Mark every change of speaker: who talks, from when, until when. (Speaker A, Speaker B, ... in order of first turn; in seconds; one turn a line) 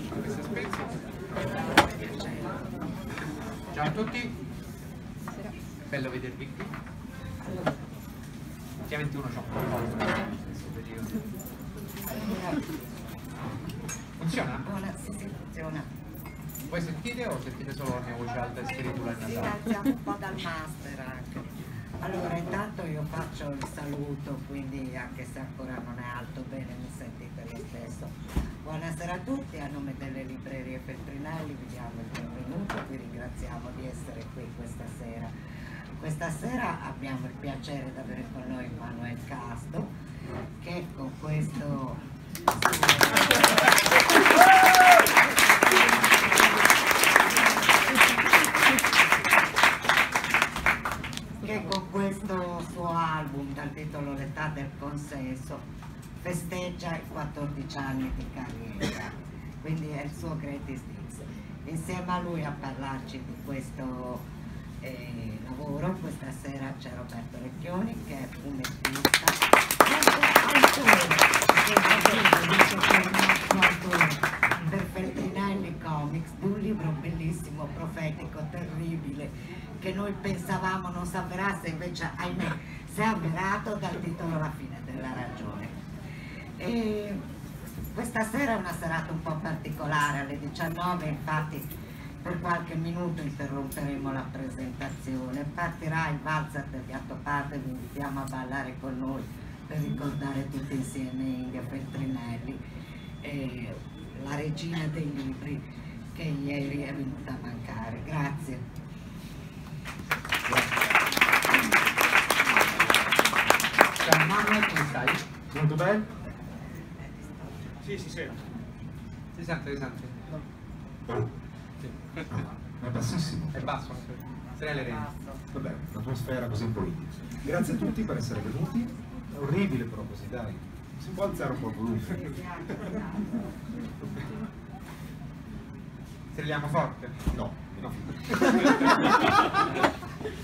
Speaker A: 0.4-0.7
Speaker B: 1.8-2.5
Speaker A: 3.7-4.3
Speaker A: 5.8-6.7
Speaker A: 8.8-11.2
Speaker B: 12.1-12.7
Speaker A: 14.2-14.6
Speaker B: 14.6-15.9
Speaker A: 16.7-19.5
Speaker B: 19.3-35.3
Speaker B: 35.9-39.9
Speaker B: 40.6-42.0
Speaker B: 42.5-43.7
Speaker B: 51.4-55.6
Speaker B: 56.2-64.2
Speaker B: 64.8-85.8
Speaker B: 86.6-87.2
Speaker B: 87.8-102.6
Speaker B: 103.2-108.6
Speaker A: 114.0-115.2
Speaker C: 115.5-116.1
Speaker A: 119.3-120.2
Speaker C: 122.3-123.7
Speaker A: 123.5-125.1
Speaker B: 125.1-125.4
Speaker C: 125.5-132.3
Speaker B: 132.2-133.5
Speaker A: 136.3-137.3
Speaker C: 137.3-139.3
Speaker A: 137.9-139.1